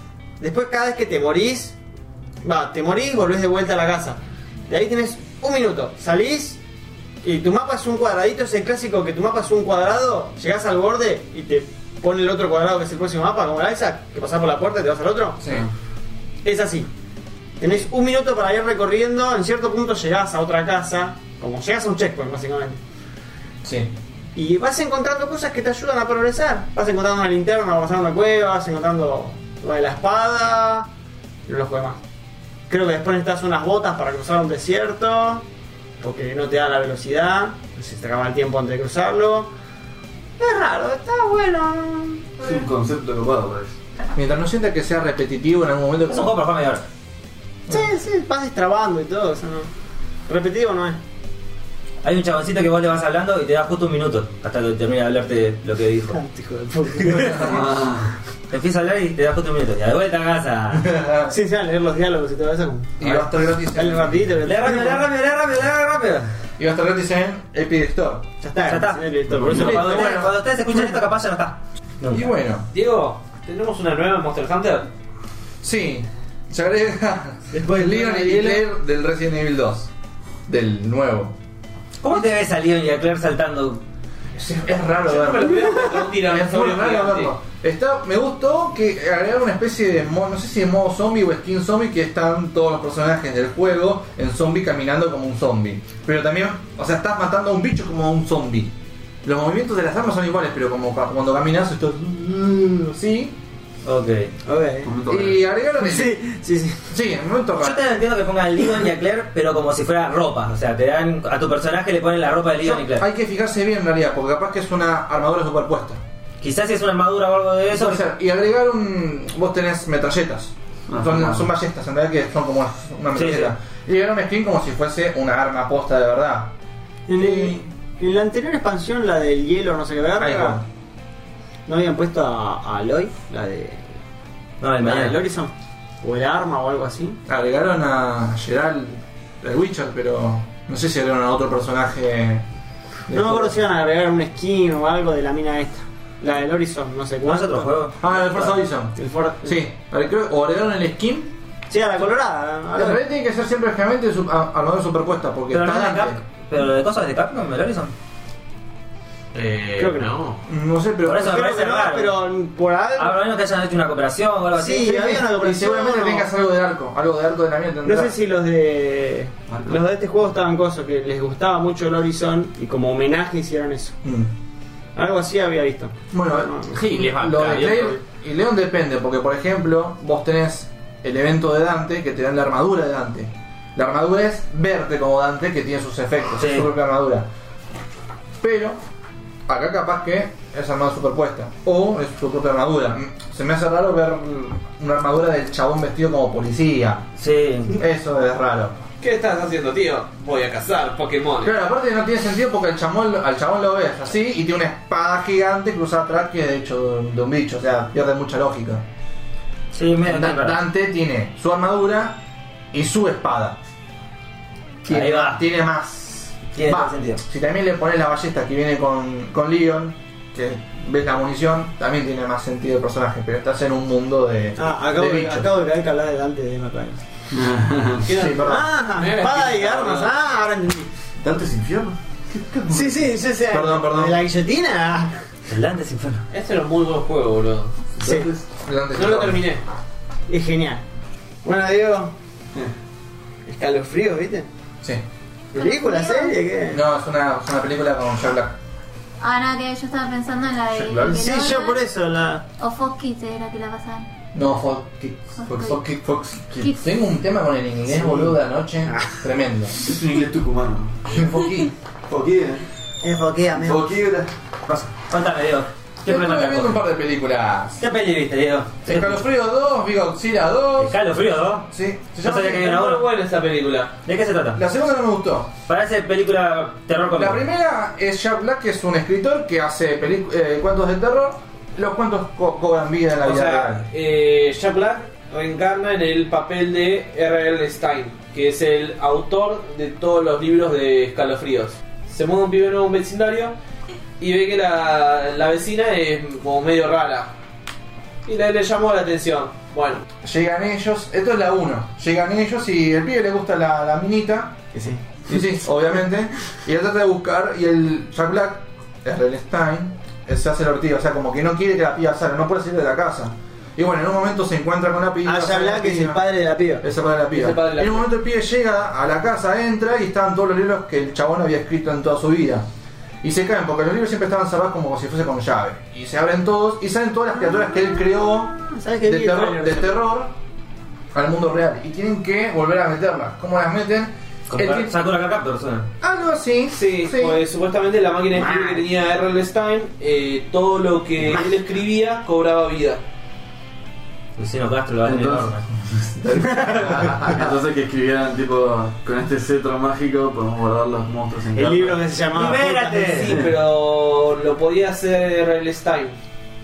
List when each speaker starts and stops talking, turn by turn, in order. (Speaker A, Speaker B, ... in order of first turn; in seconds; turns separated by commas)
Speaker A: 0.4-1.8, Speaker A: 2.4-6.6, Speaker A: 7.2-15.4, Speaker A: 16.4-16.9, Speaker A: 17.6-22.8, Speaker B: 23.6-23.9, Speaker A: 24.3-30.9, Speaker A: 31.4-32.0, Speaker A: 32.7-35.5, Speaker A: 36.0-39.5, Speaker A: 40.4-42.6, Speaker C: 42.4-43.8, Speaker B: 44.1-46.4, Speaker D: 46.1-46.9, Speaker A: 47.7-49.7, Speaker A: 50.3-51.0, Speaker D: 52.0-56.2, Speaker A: 56.1-57.7, Speaker C: 57.2-58.1, Speaker D: 58.5-60.9, Speaker B: 60.7-61.3, Speaker A: 61.3-63.0, Speaker B: 63.0-64.2, Speaker A: 63.7-65.1, Speaker D: 64.5-66.3, Speaker B: 66.6-68.3, Speaker A: 68.4-71.0, Speaker D: 68.7-72.3, Speaker C: 69.3-69.9, Speaker B: 69.5-70.3, Speaker B: 72.1-72.7, Speaker E: 72.7-74.9, Speaker B: 75.6-79.9, Speaker A: 77.5-78.6, Speaker B: 80.5-81.3, Speaker D: 82.0-83.8, Speaker B: 84.3-103.4, Speaker E: 85.0-87.3, Speaker D: 103.8-104.3, Speaker A: 104.5-104.9, Speaker C: 104.8-105.4, Speaker B: 105.1-106.2, Speaker A: 105.8-106.8, Speaker B: 106.9-107.8, Speaker D: 107.6-113.0, Speaker B: 112.6-116.0, Speaker D: 116.4-118.0, Speaker B: 117.7-126.5, Speaker C: 120.9-121.5, Speaker D: 123.1-123.5, Speaker A: 127.1-130.6, Speaker B: 127.1-127.7, Speaker B: 130.2-130.6, Speaker A: 131.7-133.8, Speaker D: 134.6-135.2, Speaker A: 134.8-137.2, Speaker B: 137.3-142.4, Speaker B: 143.1-143.6, Speaker A: 143.1-147.7, Speaker D: 147.2-148.4, Speaker B: 148.0-151.3, Speaker A: 148.9-149.6, Speaker A: 151.7-153.0, Speaker B: 152.7-156.2, Speaker D: 155.5-157.9, Speaker E: 159.3-160.4, Speaker A: 159.8-160.1, Speaker B: 160.4-161.4, Speaker D: 161.1-162.2, Speaker A: 161.2-163.2, Speaker D: 162.9-165.3, Speaker A: 164.5-166.3, Speaker B: 165.3-168.1, Speaker A: 167.8-174.0, Speaker C: 169.5-169.8, Speaker B: 174.0-174.3, Speaker A: 174.9-176.8, Speaker B: 176.1-187.3, Speaker E: 177.0-177.9, Speaker D: 186.4-186.7, Speaker B: 188.4-188.8, Speaker B: 189.5-197.1, Speaker D: 197.2-197.8, Speaker B: 197.7-198.8, Speaker E: 199.0-201.5, Speaker B: 201.4-208.8, Speaker D: 209.7-210.6, Speaker B: 210.1-212.2, Speaker B: 212.7-213.6, Speaker D: 214.8-215.4, Speaker B: 214.9-225.5, Speaker D: 216.5-217.2, Speaker A: 224.6-227.0, Speaker C: 227.3-228.1, Speaker E: 228.1-230.1, Speaker B: 228.1-228.7, Speaker A: 228.4-230.9, Speaker C: 231.2-233.0, Speaker A: 232.7-235.2, Speaker B: 233.5-234.2, Speaker D: 235.5-236.2, Speaker E: 236.3-237.9, Speaker C: 238.0-238.4, Speaker A: 238.0-238.3, Speaker B: 238.6-239.4, Speaker E: 238.9-239.6, Speaker A: 240.3-240.8, Speaker A: 241.4-242.1, Speaker A: 243.4-244.5, Speaker A: 245.5-246.8, Speaker F: 245.5-246.4, Speaker B: 246.7-248.6, Speaker F: 249.2-251.8, Speaker C: 250.7-251.2, Speaker A: 251.1-252.4, Speaker F: 252.6-254.1, Speaker B: 254.3-259.8, Speaker F: 255.4-255.8, Speaker C: 256.0-256.8, Speaker A: 258.1-258.3, Speaker C: 259.8-261.3, Speaker B: 261.1-261.7, Speaker C: 262.1-262.6, Speaker A: 263.0-263.9, Speaker C: 263.6-264.3, Speaker D: 264.7-266.8, Speaker B: 266.1-267.8, Speaker D: 267.8-269.2, Speaker B: 268.9-271.0, Speaker D: 270.8-273.1, Speaker B: 271.7-272.1, Speaker E: 272.1-273.9, Speaker D: 274.0-274.6, Speaker B: 274.6-275.5, Speaker D: 275.7-277.4, Speaker B: 277.1-283.9, Speaker E: 283.2-293.6, Speaker E: 294.2-297.3, Speaker E: 298.2-300.0, Speaker B: 300.2-304.6, Speaker A: 304.7-305.2, Speaker B: 305.3-316.2, Speaker A: 315.2-316.8, Speaker B: 316.8-322.7, Speaker E: 317.3-318.1, Speaker B: 323.2-330.3, Speaker A: 328.7-330.0, Speaker B: 331.1-335.0, Speaker D: 334.5-335.9, Speaker B: 336.0-337.4, Speaker E: 336.7-343.0, Speaker A: 338.4-338.8, Speaker D: 344.4-347.1, Speaker C: 345.1-345.5, Speaker C: 346.5-352.0, Speaker A: 351.5-353.2, Speaker D: 352.3-353.4, Speaker E: 353.0-356.2